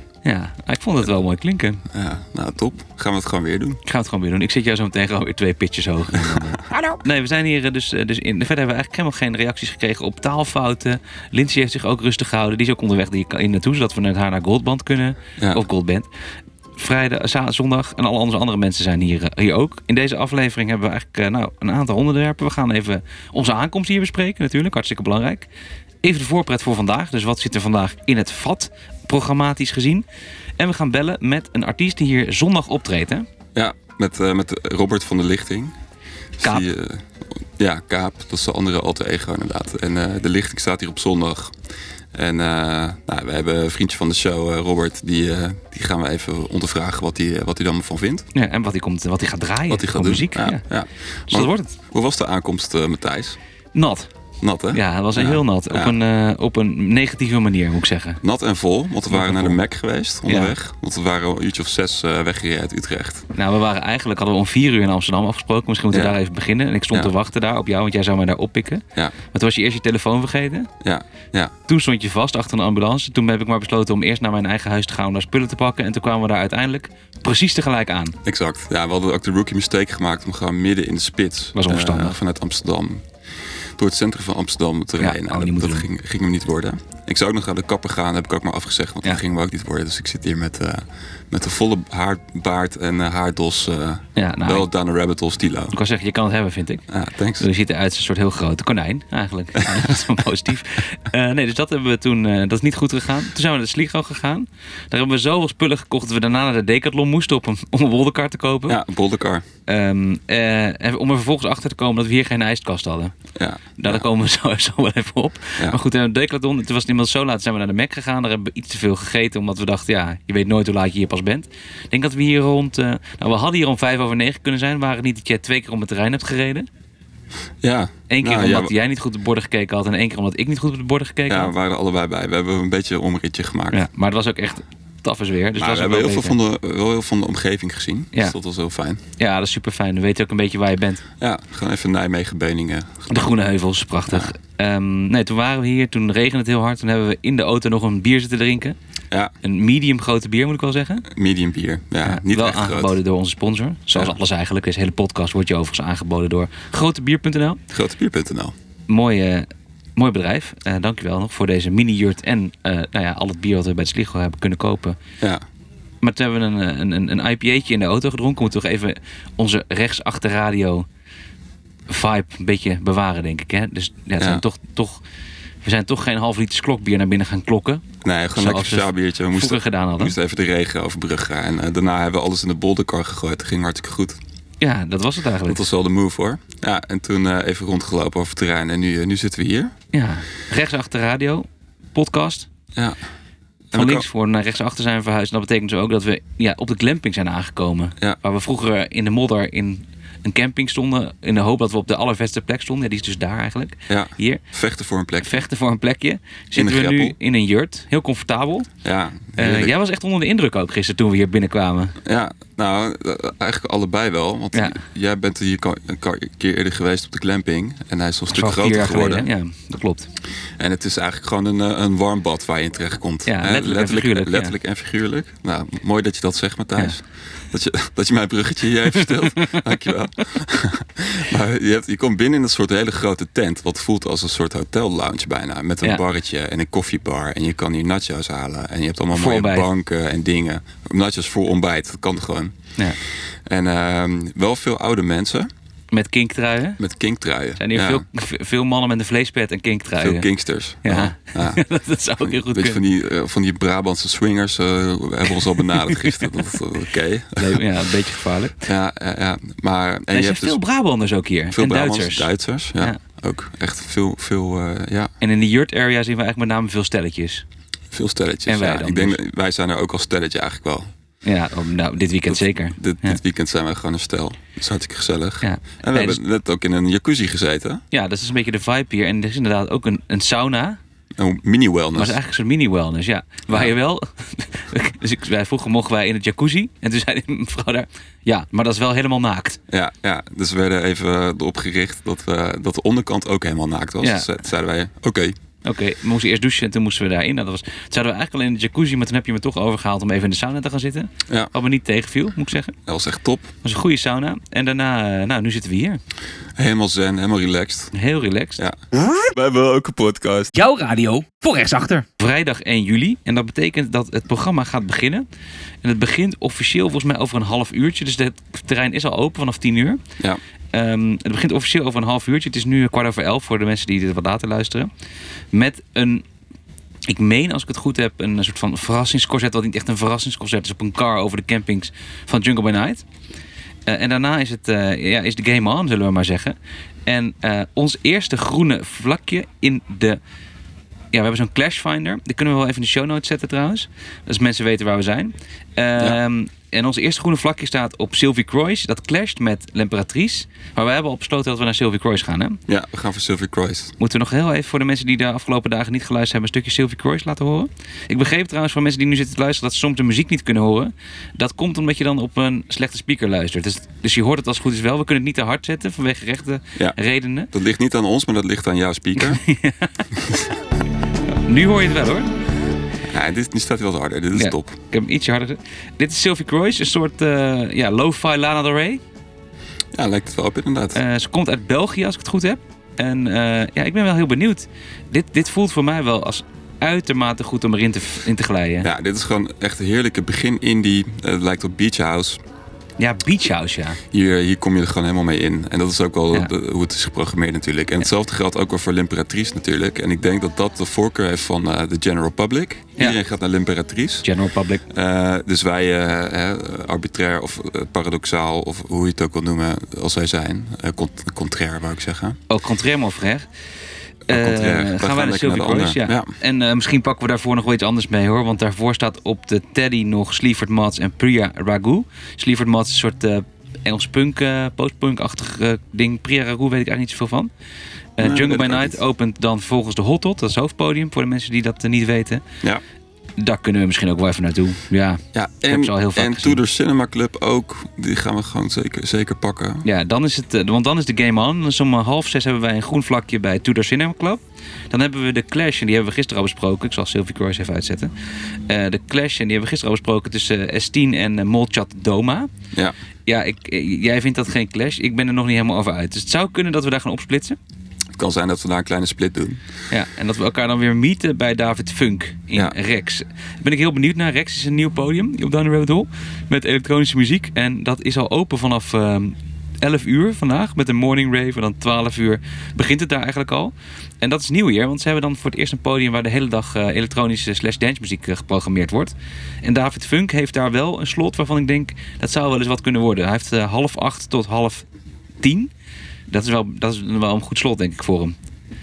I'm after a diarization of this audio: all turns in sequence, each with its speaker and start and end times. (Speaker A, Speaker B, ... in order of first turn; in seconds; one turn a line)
Speaker A: 0.2-1.8
Speaker B: 1.9-3.8
Speaker A: 3.8-16.1
Speaker B: 6.2-6.5
Speaker B: 15.4-15.6
Speaker A: 16.8-25.5
Speaker A: 26.0-30.0
Speaker A: 30.6-33.2
Speaker B: 33.5-35.7
Speaker B: 36.4-41.5
Speaker A: 36.4-36.7
Speaker B: 42.1-48.3
Speaker A: 48.3-50.6
Speaker B: 49.7-53.4
Speaker A: 51.3-51.8
Speaker A: 53.7-54.1
Speaker B: 54.4-55.9
Speaker A: 54.7-58.2
Speaker B: 58.2-63.3
Speaker A: 59.1-59.6
Speaker A: 60.3-60.5
Speaker A: 63.3-70.7
Speaker B: 70.8-71.5
Speaker A: 71.7-78.2
Speaker B: 78.2-83.0
Speaker A: 81.5-82.2
Speaker B: 83.8-95.8
Speaker A: 85.0-85.9
Speaker A: 94.2-94.7
Speaker A: 95.7-96.8
Speaker B: 96.9-97.5
Speaker A: 97.4-108.8
Speaker B: 108.7-109.4
Speaker A: 109.7-113.1
Speaker B: 113.4-114.0
Speaker A: 113.8-126.7
Speaker B: 127.6-128.7
Speaker A: 128.1-131.5
Speaker B: 131.3-133.8
Speaker A: 133.7-136.4
Speaker B: 135.6-139.0
Speaker A: 139.2-141.0
Speaker B: 141.2-143.3
Speaker A: 143.1-148.8
Speaker A: 149.4-151.1
Speaker B: 151.1-153.0
Speaker A: 152.1-157.6
Speaker B: 157.7-158.5
Speaker A: 158.9-165.0
Speaker A: 166.0-170.9
Speaker A: 171.9-175.0
Speaker B: 174.2-174.4
Speaker A: 175.6-177.8
Speaker B: 178.0-184.2
Speaker A: 178.4-180.1
Speaker A: 184.6-185.6
Speaker B: 185.4-189.7
Speaker A: 189.9-192.5
Speaker B: 193.7-194.1
Speaker A: 193.7-204.4
Speaker B: 203.9-205.4
Speaker A: 205.2-208.7
Speaker B: 206.6-207.1
Speaker B: 208.8-209.8
Speaker A: 209.4-211.9
Speaker B: 212.0-219.3
Speaker A: 214.5-214.8
Speaker A: 218.3-220.1
Speaker B: 220.6-242.6
Speaker A: 223.2-224.6
Speaker A: 229.0-229.6
Speaker A: 239.1-239.7
Speaker B: 243.4-245.5
Speaker A: 245.9-246.8
Speaker B: 246.8-248.0
Speaker A: 247.6-250.3
Speaker B: 250.0-251.6
Speaker A: 250.8-252.8
Speaker B: 252.2-257.6
Speaker A: 255.7-256.2
Speaker A: 257.4-258.6
Speaker B: 258.6-260.6
Speaker A: 260.1-263.0
Speaker B: 261.5-265.1
Speaker A: 265.2-267.4
Speaker B: 267.9-270.9
Speaker A: 268.4-269.2
Speaker A: 271.2-273.2
Speaker B: 272.3-277.8
Speaker A: 275.4-276.2
Speaker A: 277.9-280.8
Speaker B: 281.1-282.2
Speaker A: 282.0-289.6
Speaker B: 289.7-295.4
Speaker A: 294.0-294.3
Speaker A: 295.6-302.8
Speaker B: 302.9-303.5
Speaker A: 303.6-306.0
Speaker B: 306.6-307.9
Speaker A: 307.9-308.6
Speaker C: 308.9-309.2
Speaker B: 309.3-310.5
Speaker C: 310.5-312.1
Speaker A: 312.2-315.2
Speaker A: 315.8-320.0
Speaker A: 320.7-324.9
Speaker A: 325.5-326.2
Speaker A: 327.1-333.1
Speaker A: 333.9-336.6
Speaker A: 337.1-340.2
Speaker A: 341.1-352.6
Speaker B: 352.7-353.9
Speaker A: 354.0-367.5
Speaker B: 367.5-369.4
Speaker A: 369.2-370.0
Speaker B: 370.1-370.4
Speaker A: 371.4-372.3
Speaker B: 373.1-374.8
Speaker A: 374.4-379.0
Speaker B: 379.9-381.0
Speaker A: 380.9-388.9
Speaker B: 388.8-392.4
Speaker A: 393.0-394.0
Speaker B: 394.1-404.3
Speaker A: 404.2-404.8
Speaker B: 404.9-412.4
Speaker A: 412.5-413.5
Speaker B: 414.3-416.3
Speaker A: 414.3-427.5
Speaker A: 428.2-432.4
Speaker B: 428.2-429.0
Speaker A: 433.4-436.6
Speaker B: 435.3-439.9
Speaker A: 439.8-448.1
Speaker A: 448.7-452.5
Speaker A: 453.2-457.6
Speaker B: 458.1-459.6
Speaker A: 459.9-484.9
Speaker A: 485.4-485.7
Speaker A: 486.3-488.4